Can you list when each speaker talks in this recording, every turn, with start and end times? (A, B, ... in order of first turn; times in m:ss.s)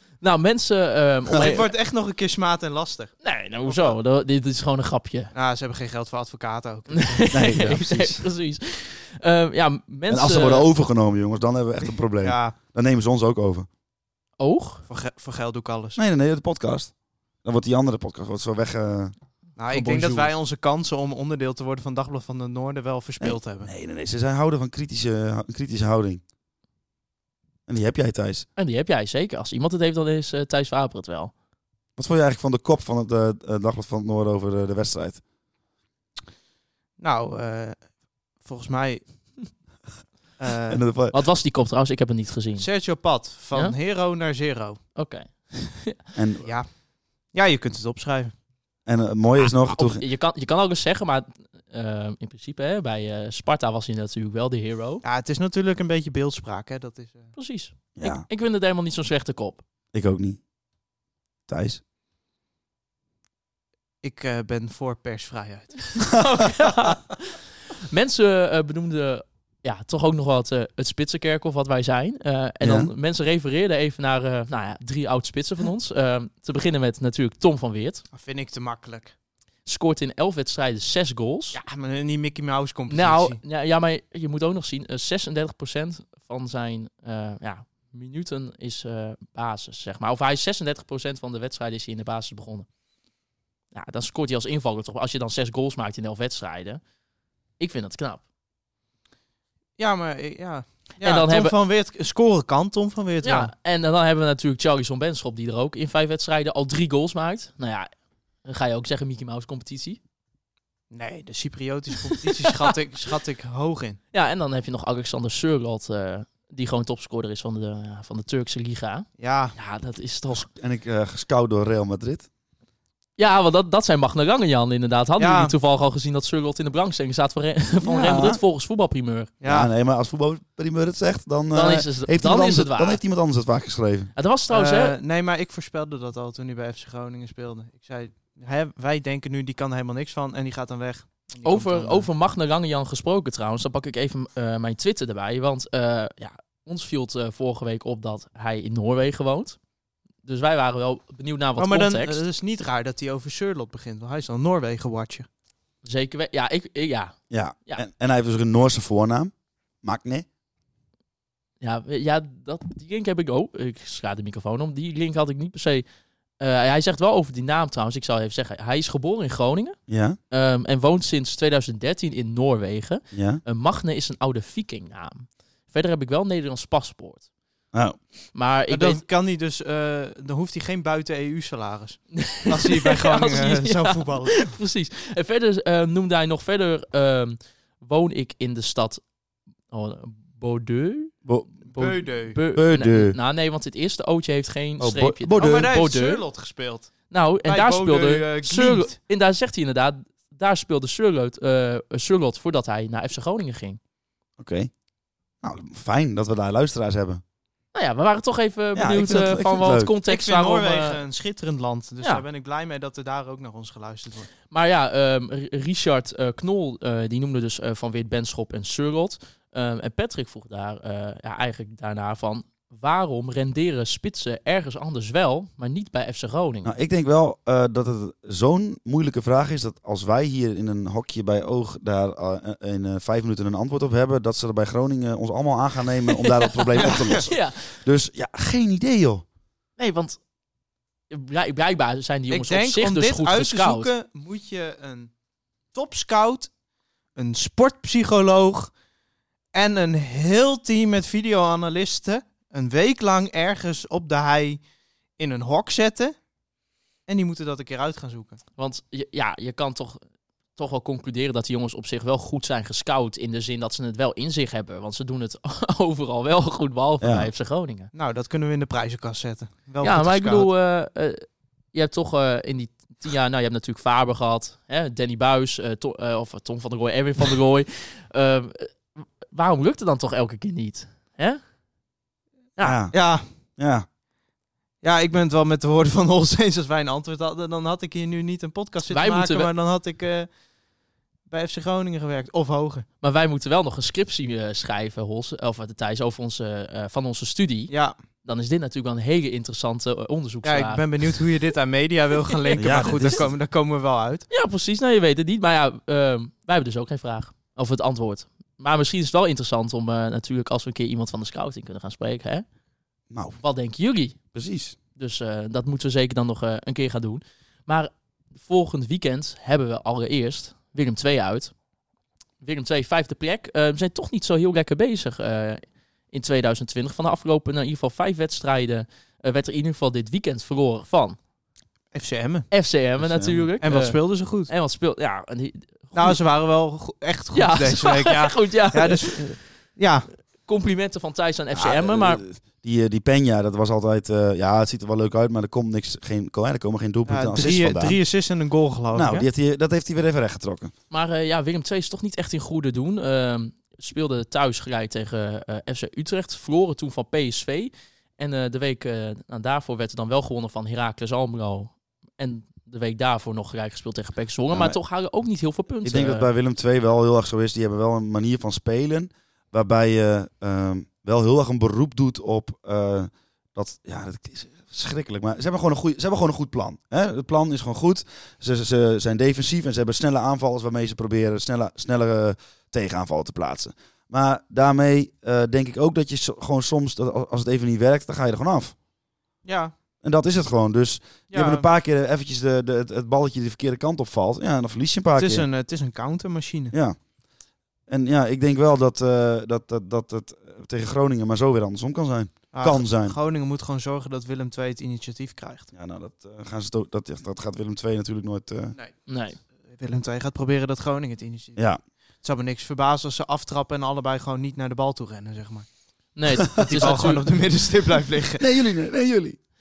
0:00.2-0:01.7 A
0:01.3-0:03.1 B
0:03.2-0:05.3 A
0:03.6-0:04.0 B
0:05.3-0:07.6 B
0:06.9-0:10.7 A
0:07.3-0:08.2 C
0:10.1-0:13.7 C
0:12.2-0:12.6 B
0:14.4-0:14.8 A
0:14.9-0:16.0 B
0:16.0-0:16.9 C
0:17.4-0:19.1 C
0:19.6-0:23.7 B
0:19.7-0:20.3 A
0:23.2-0:26.2 C
0:27.7-0:28.4 C
0:28.6-0:31.3 A
0:32.0-0:35.2 C
0:37.0-0:37.9 B
0:38.4-0:39.0 B
0:40.4-0:40.8 B
0:40.7-0:41.2 C
0:41.1-0:42.6 A
0:42.6-0:44.8 B
0:45.0-0:46.0 A
0:46.1-0:46.5 C
0:47.3-0:48.3 B
0:48.8-0:50.0 C
0:49.6-0:55.0 A
0:55.0-0:57.4 B
0:57.4-0:59.6 A
0:58.0-0:58.2 C
0:59.9-1:00.4 C
1:01.5-1:01.8 C
1:04.0-1:06.5 B
1:06.1-1:07.4 A
1:07.9-1:18.0 A
1:12.6-1:12.9 C
1:18.1-1:19.1 B
1:19.6-1:21.6 A
1:21.5-1:23.4 B
1:22.9-1:32.6 A
1:33.7-1:36.8 A
1:37.6-1:38.2 A
1:39.8-1:43.5 B
1:41.0-1:41.5 A
1:43.2-1:47.9 A
1:48.4-1:50.0 A
1:50.9-1:54.0 B
1:54.1-2:00.5 A
1:59.2-1:59.6 B
2:00.3-2:02.3 C
2:03.2-2:09.3 A
2:05.2-2:05.5 B
2:07.8-2:08.4 C
2:09.4-2:09.7 B
2:09.4-2:14.1 C
2:11.5-2:13.0 A
2:14.2-2:15.0 A
2:14.5-2:22.1 B
2:21.4-2:29.6 A
2:30.2-2:32.2 A
2:31.6-2:35.3 B
2:35.8-2:37.8 A
2:37.3-2:40.3 C
2:41.6-2:45.8 A
2:46.4-2:49.8 A
2:49.9-2:50.2 C
2:50.3-2:57.2 A
2:53.1-2:53.4 C
2:57.7-2:58.0 C
2:58.3-2:59.0 A
2:58.7-3:04.6 B
3:02.1-3:09.0 A
3:09.7-3:16.2 A
3:11.2-3:11.5 C
3:11.7-3:12.4 B
3:12.5-3:13.2 C
3:14.8-3:15.7 C
3:15.3-3:16.9 B
3:17.1-3:23.8 A
3:17.4-3:19.0 B
3:24.4-3:24.7 C
3:25.4-3:27.2 C
3:27.7-3:31.0 A
3:28.7-3:29.9 C
3:30.1-3:34.3 B
3:34.5-3:46.7 A
3:46.6-3:59.2 C
3:56.2-3:57.8 A
3:59.8-4:00.2 A
4:01.1-4:03.9 A
4:02.3-4:05.1 B
4:05.7-4:06.5 B
4:07.2-4:08.7 B
4:09.5-4:14.6 B
4:15.2-4:16.1 B
4:17.1-4:18.4 B
4:18.6-4:20.0 A
4:20.6-4:27.9 A
4:27.0-4:27.3 C
4:27.9-4:30.5 B
4:29.8-4:41.4 A
4:42.6-4:42.9 C
4:42.9-4:43.2 B
4:43.6-4:43.8 C
4:44.8-4:50.3 B
4:48.9-4:49.5 A
4:51.3-4:52.8 B
4:53.0-4:57.7 A
4:57.7-4:58.0 B
4:58.2-5:00.9 A
5:00.4-5:04.2 B
5:02.6-5:03.3 C
5:04.3-5:12.4 A
5:13.1-5:13.4 C
5:13.4-5:14.2 A
5:14.3-5:14.8 C
5:15.0-5:21.5 A
5:22.4-5:31.2 A
5:31.9-5:32.5 B
5:32.5-5:36.2 A
5:33.0-5:33.5 C
5:33.6-5:34.5 B
5:35.9-5:40.1 B
5:37.3-5:39.3 A
5:40.4-5:42.2 A
5:41.5-5:48.0 C
5:47.1-5:49.3 B
5:48.9-5:50.7 C
5:50.9-6:06.3 A
6:04.5-6:04.8 C
6:05.8-6:28.7 C
6:29.4-6:29.7 B
6:30.0-6:35.5 C
6:31.3-6:31.7 B
6:35.2-6:36.7 B
6:36.7-6:37.0 C
6:37.9-6:43.1 C
6:42.5-6:45.7 B
6:45.7-6:48.7 C
6:49.1-6:49.4 A
6:49.7-6:51.6 B
6:52.2-6:55.7 B
6:56.2-6:57.3 A
6:56.5-6:58.4 B
6:58.4-6:59.4 C